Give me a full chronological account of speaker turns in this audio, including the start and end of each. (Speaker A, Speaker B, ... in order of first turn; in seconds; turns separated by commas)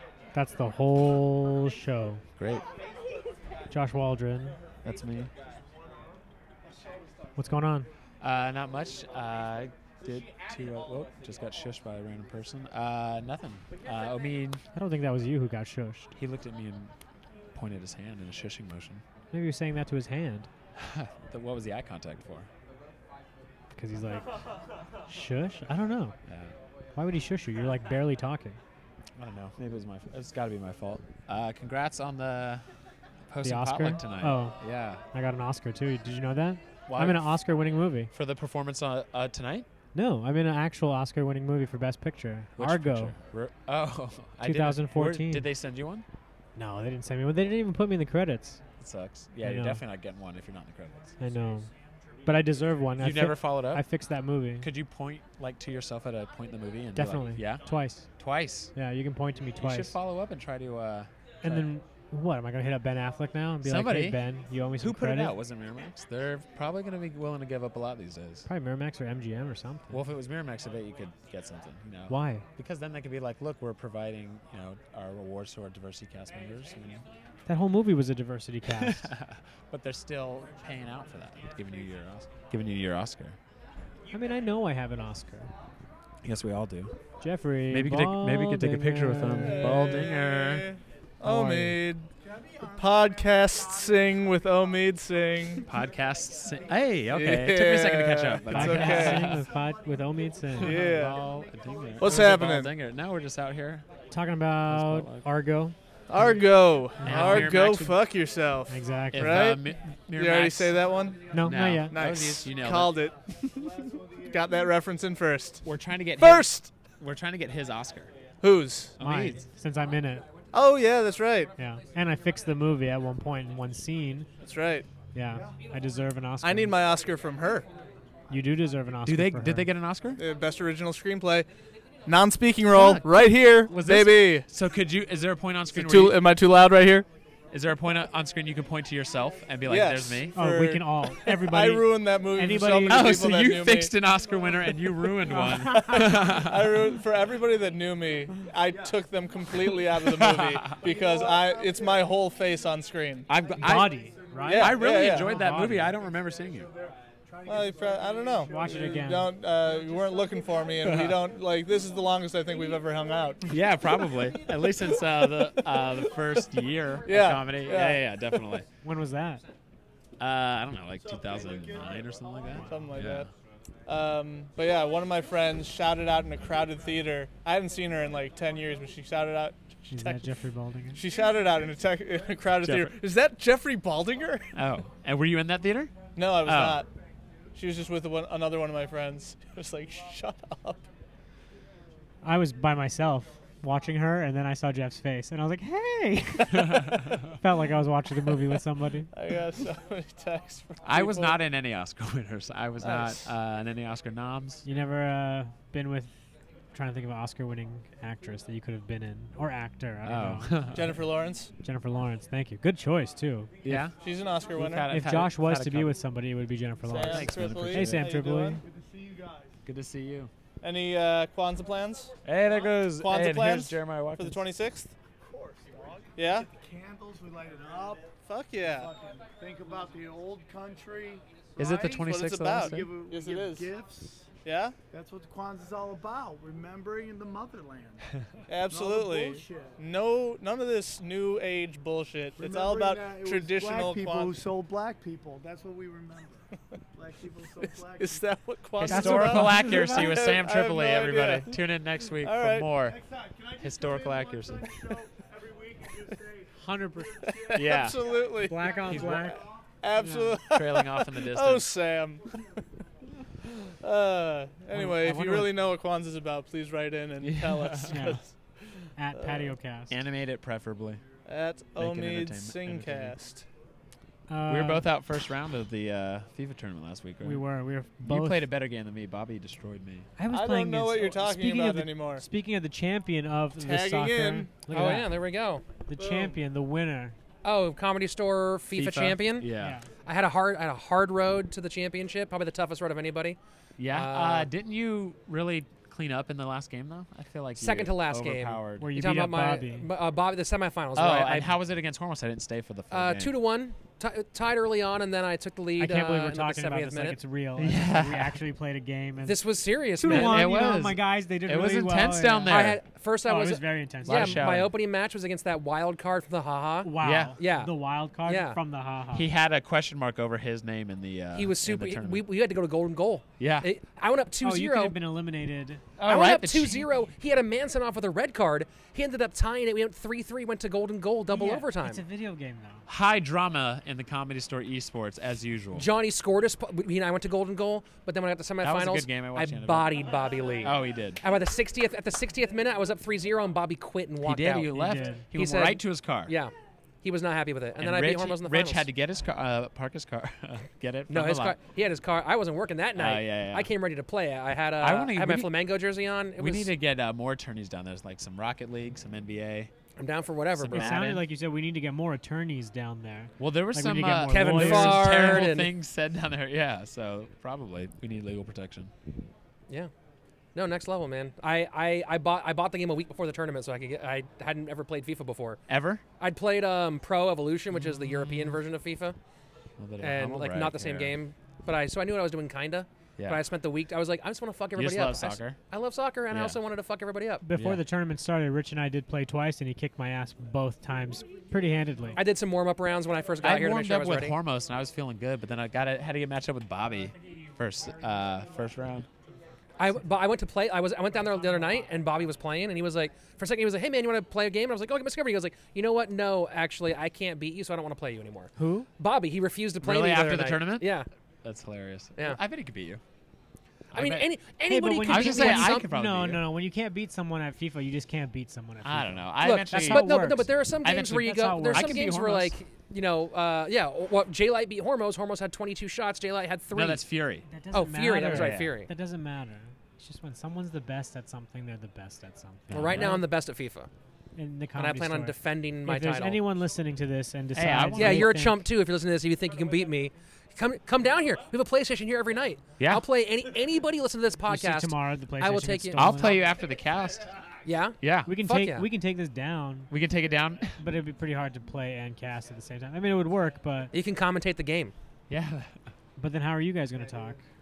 Speaker A: 0.3-2.2, Speaker B: 2.4-2.6, Speaker A: 3.7-4.6, Speaker B: 4.8-5.3, Speaker A: 7.3-7.9, Speaker B: 8.2-14.6, Speaker A: 14.7-16.1, Speaker B: 16.1-16.9, Speaker B: 17.5-19.0, Speaker A: 19.3-20.5, Speaker B: 20.8-22.5, Speaker A: 23.8-24.3, Speaker A: 25.1-26.1, Speaker B: 26.3-26.5, Speaker A: 26.9-28.6, Speaker B: 29.1-32.7, Speaker B: 33.3-35.0, Speaker A: 33.4-34.6, Speaker A: 35.1-38.1, Speaker B: 36.9-37.4, Speaker B: 38.1-39.7, Speaker A: 39.9-43.1, Speaker B: 42.5-46.0, Speaker A: 44.4-45.5, Speaker A: 46.5-48.6, Speaker B: 48.8-51.1, Speaker A: 49.4-49.8, Speaker A: 51.2-51.7, Speaker A: 52.2-54.7, Speaker B: 53.0-53.9, Speaker B: 54.6-58.7, Speaker A: 56.9-58.1, Speaker A: 58.7-60.0, Speaker B: 59.6-61.7, Speaker A: 61.4-65.3, Speaker B: 63.6-64.2, Speaker B: 64.8-68.5, Speaker A: 68.4-70.0, Speaker B: 69.9-77.0, Speaker A: 72.1-72.5, Speaker A: 77.5-79.1, Speaker B: 78.7-83.4, Speaker A: 84.1-85.5, Speaker B: 86.2-87.0, Speaker A: 87.2-89.8, Speaker B: 87.7-90.7, Speaker C: 89.4-92.1, Speaker A: 91.2-91.8, Speaker C: 92.7-95.7, Speaker B: 95.6-99.6, Speaker C: 97.0-99.3, Speaker A: 98.5-100.9, Speaker B: 100.5-103.9, Speaker C: 100.6-101.3, Speaker C: 102.0-102.7, Speaker A: 104.1-105.7, Speaker B: 104.7-105.3, Speaker C: 106.1-113.3, Speaker A: 107.0-107.5, Speaker B: 107.0-108.0, Speaker A: 108.7-109.5, Speaker B: 109.1-110.8, Speaker A: 111.3-112.0, Speaker B: 111.4-113.0, Speaker C: 114.2-115.6, Speaker B: 115.6-118.1, Speaker C: 116.2-116.7, Speaker C: 118.4-119.0, Speaker B: 119.0-119.4, Speaker A: 119.0-120.2, Speaker D: 119.6-122.6, Speaker C: 120.5-121.5, Speaker A: 121.6-124.3, Speaker C: 124.4-124.9, Speaker A: 125.1-126.8, Speaker C: 126.4-127.7, Speaker A: 128.3-129.7, Speaker B: 129.0-130.2, Speaker C: 130.1-131.5, Speaker C: 132.1-134.5, Speaker B: 132.7-136.2, Speaker C: 135.7-137.1, Speaker B: 137.5-140.3, Speaker C: 139.6-143.9, Speaker A: 140.3-143.1, Speaker B: 142.8-146.7, Speaker C: 144.9-153.3, Speaker E: 148.7-149.0, Speaker B: 150.1-150.8, Speaker E: 150.7-152.2, Speaker B: 153.3-156.7, Speaker A: 153.6-155.9, Speaker E: 154.0-155.6, Speaker C: 154.4-155.3, Speaker E: 156.5-159.1, Speaker C: 157.4-163.5, Speaker A: 158.5-159.3, Speaker E: 159.6-160.9, Speaker B: 160.8-161.2, Speaker B: 163.4-168.7, Speaker C: 165.4-165.7, Speaker C: 167.0-168.6, Speaker A: 168.8-169.4, Speaker D: 169.2-169.6, Speaker B: 170.2-173.3, Speaker C: 172.7-173.3, Speaker C: 173.8-180.3, Speaker A: 179.9-181.0, Speaker C: 180.9-184.5, Speaker B: 182.6-183.0, Speaker B: 184.5-186.8, Speaker C: 186.1-186.9, Speaker C: 187.5-190.8, Speaker A: 192.2-199.1, Speaker C: 199.1-201.4, Speaker B: 200.8-204.6, Speaker C: 202.8-203.3, Speaker A: 204.6-206.1, Speaker A: 206.7-210.7, Speaker B: 210.0-211.0, Speaker C: 210.7-211.5, Speaker A: 211.6-213.5, Speaker B: 213.6-214.0, Speaker C: 213.7-214.9, Speaker B: 214.5-216.0, Speaker A: 214.9-218.6, Speaker C: 216.8-218.6, Speaker B: 217.0-218.1, Speaker E: 218.7-219.6, Speaker B: 219.6-220.3, Speaker C: 220.6-222.1, Speaker B: 222.2-224.4, Speaker C: 222.8-224.9, Speaker E: 225.3-232.1, Speaker C: 226.2-226.5, Speaker C: 228.2-228.9, Speaker B: 231.6-233.0, Speaker C: 232.0-233.7, Speaker E: 232.6-234.3, Speaker C: 234.4-234.8, Speaker E: 234.9-238.1, Speaker C: 238.5-244.4, Speaker E: 238.6-239.8, Speaker E: 242.4-248.2, Speaker C: 247.9-252.8, Speaker A: 248.8-250.2, Speaker B: 248.8-253.0, Speaker E: 252.8-257.8, Speaker B: 253.6-254.8, Speaker A: 256.6-257.2, Speaker C: 257.4-262.6, Speaker B: 257.5-258.1, Speaker A: 258.4-259.4, Speaker B: 258.8-259.3, Speaker A: 260.0-260.3, Speaker B: 260.5-261.7, Speaker C: 263.7-269.5, Speaker A: 264.7-265.5, Speaker B: 267.2-268.1, Speaker A: 267.9-268.2, Speaker A: 268.9-270.0, Speaker B: 269.9-271.1, Speaker C: 271.2-273.4, Speaker B: 271.8-273.1, Speaker A: 274.3-274.9, Speaker B: 274.5-280.1, Speaker A: 277.2-278.5, Speaker A: 280.2-285.2, Speaker C: 280.2-282.2, Speaker C: 283.6-284.5, Speaker D: 284.6-285.6, Speaker A: 285.9-287.2, Speaker C: 286.0-286.3, Speaker D: 287.4-294.5, Speaker B: 288.7-289.8, Speaker A: 289.6-289.9, Speaker B: 293.8-299.2, Speaker D: 297.6-301.6, Speaker A: 298.8-299.9, Speaker B: 300.9-303.3, Speaker D: 302.9-307.2, Speaker A: 305.8-309.4, Speaker B: 307.6-308.4, Speaker D: 309.2-310.6, Speaker A: 310.0-312.7, Speaker B: 310.0-312.8, Speaker D: 312.5-318.6, Speaker A: 313.2-314.6, Speaker B: 314.0-314.7, Speaker A: 316.8-319.3, Speaker B: 317.0-317.4, Speaker B: 319.1-322.2, Speaker D: 321.3-325.0, Speaker B: 323.4-323.7, Speaker A: 324.4-325.8, Speaker B: 326.0-326.9, Speaker D: 326.0-332.0, Speaker A: 331.3-332.8, Speaker B: 332.9-335.9, Speaker D: 335.7-348.9, Speaker B: 338.6-340.0, Speaker B: 340.6-341.2, Speaker B: 344.2-346.3, Speaker A: 344.8-345.2, Speaker B: 347.8-351.6, Speaker D: 351.1-356.7, Speaker B: 352.9-353.7, Speaker B: 354.8-355.6, Speaker B: 356.4-359.7, Speaker D: 360.0-361.2, Speaker B: 360.6-361.2, Speaker A: 360.7-365.5, Speaker B: 363.4-368.9, Speaker D: 364.3-365.7, Speaker D: 370.5-375.6, Speaker B: 375.7-376.0, Speaker D: 376.2-379.1, Speaker B: 379.8-381.2, Speaker D: 380.0-387.4, Speaker B: 383.2-383.4, Speaker B: 384.7-385.6, Speaker B: 386.3-386.6, Speaker A: 387.4-392.2, Speaker B: 387.5-387.8, Speaker D: 392.1-394.4, Speaker B: 393.4-399.1, Speaker D: 399.8-411.1, Speaker A: 408.6-408.9, Speaker B: 409.8-413.0, Speaker D: 412.1-412.4, Speaker B: 413.9-414.4, Speaker D: 413.9-415.9, Speaker A: 414.6-420.5, Speaker B: 415.0-416.5, Speaker B: 418.8-422.6, Speaker D: 419.4-427.1, Speaker A: 421.2-422.0, Speaker B: 426.7-427.4, Speaker A: 427.5-433.2, Speaker D: 427.7-428.9, Speaker B: 428.3-428.8, Speaker B: 432.7-433.3, Speaker D: 432.7-433.9, Speaker A: 434.4-438.6, Speaker D: 434.7-436.5, Speaker B: 437.5-438.3, Speaker D: 437.9-446.4, Speaker B: 442.8-443.0, Speaker A: 444.5-446.4, Speaker B: 445.9-447.3, Speaker D: 447.6-448.9, Speaker B: 448.0-448.3, Speaker A: 448.2-449.9, Speaker B: 449.9-450.8, Speaker A: 450.8-453.9, Speaker D: 453.9-454.9, Speaker B: 455.3-455.8, Speaker A: 456.2-457.4